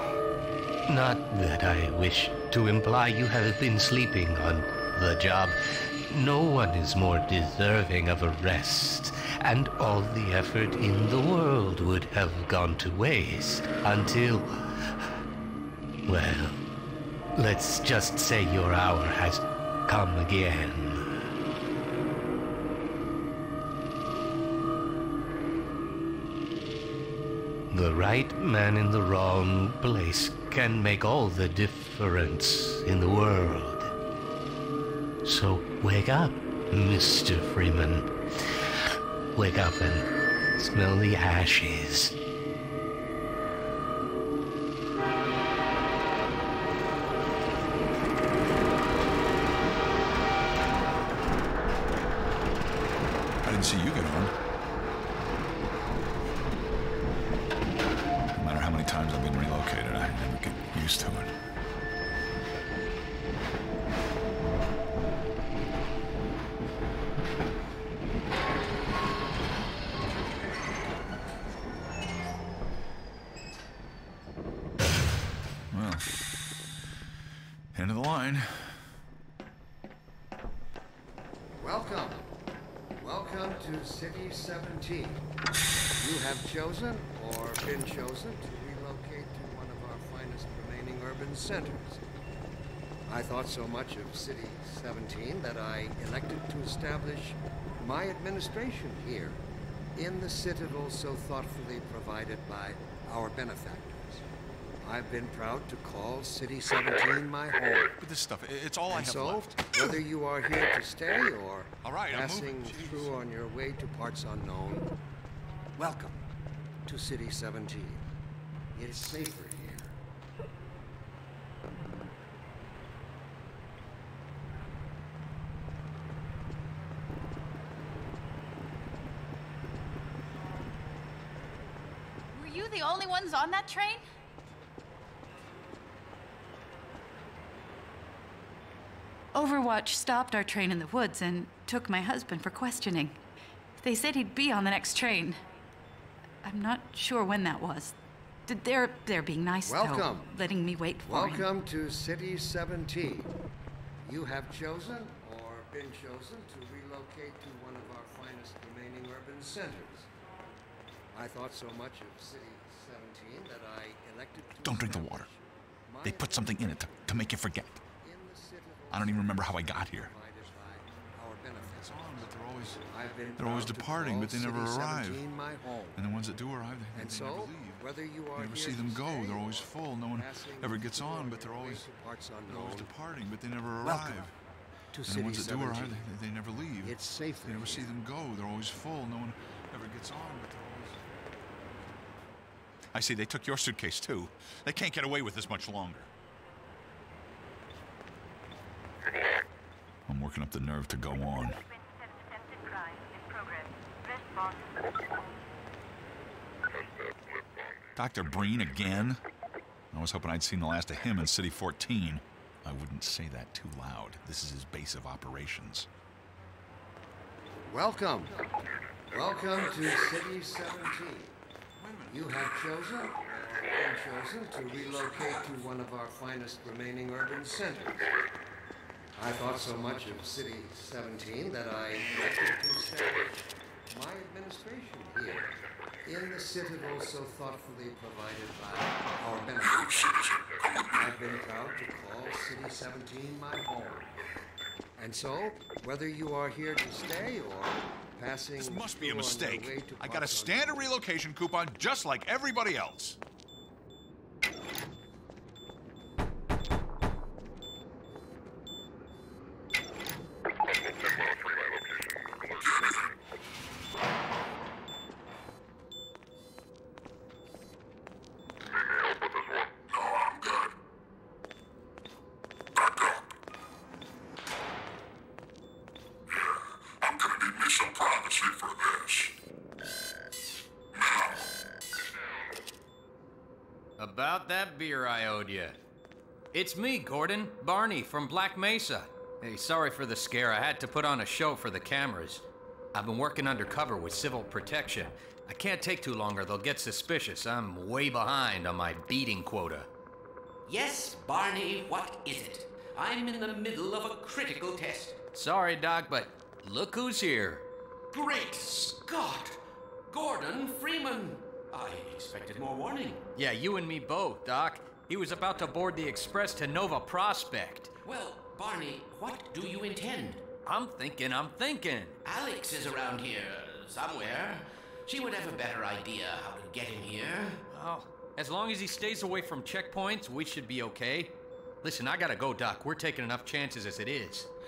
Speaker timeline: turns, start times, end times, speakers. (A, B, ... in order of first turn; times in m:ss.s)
0:00.9-0:05.6 A
0:06.1-0:15.0 A
0:16.1-0:16.6 A
0:17.3-0:21.0 A
0:27.7-0:33.9 A
0:35.2-0:38.1 A
0:39.3-0:42.1 A
0:53.4-0:54.3 B
0:58.4-1:01.3 B
1:15.7-1:16.1 B
1:17.7-1:18.8 B
1:21.6-1:22.3 C
1:23.0-1:25.2 C
1:26.0-1:32.0 C
1:33.1-1:39.4 C
1:40.0-1:44.2 C
1:44.8-1:47.9 C
1:48.0-1:50.0 B
1:48.9-1:54.9 C
1:51.8-1:53.2 B
1:55.8-1:56.2 C
1:56.9-1:58.1 C
1:58.7-2:00.0 C
2:12.3-2:14.0 D
2:19.3-2:23.2 D
2:23.8-2:25.4 D
2:26.4-2:28.0 D
2:28.5-2:31.5 D
2:29.6-2:30.4 C
2:31.0-2:33.4 C
2:34.0-2:40.1 C
2:41.1-2:47.3 C
2:44.6-2:45.3 B
2:46.0-2:47.8 B
2:48.0-2:52.3 C
2:48.9-2:50.1 B
2:51.7-2:52.8 B
2:52.9-2:56.0 C
2:53.4-2:55.2 B
2:56.0-3:01.8 B
2:56.9-3:02.9 C
3:02.5-3:04.3 B
3:03.8-3:04.2 C
3:04.9-3:06.1 C
3:05.1-3:11.0 B
3:06.8-3:08.0 C
3:12.9-3:16.1 B
3:20.1-3:21.6 B
3:28.0-3:29.2 B
3:29.9-3:35.9 B
3:37.7-3:38.5 C
3:39.1-3:41.4 C
3:41.8-3:42.3 B
3:42.1-3:48.1 C
3:49.2-4:04.2 C
4:05.0-4:10.8 C
4:08.6-4:13.2 B
4:44.0-4:45.8 E
4:46.5-4:59.9 E
5:00.7-5:05.2 F
5:05.3-5:07.7 E
5:08.2-5:09.5 F
5:10.1-5:13.2 F
5:13.4-5:17.9 E
5:18.1-5:20.4 F
5:20.6-5:22.2 E
5:22.3-5:27.6 F
5:27.7-5:34.5 E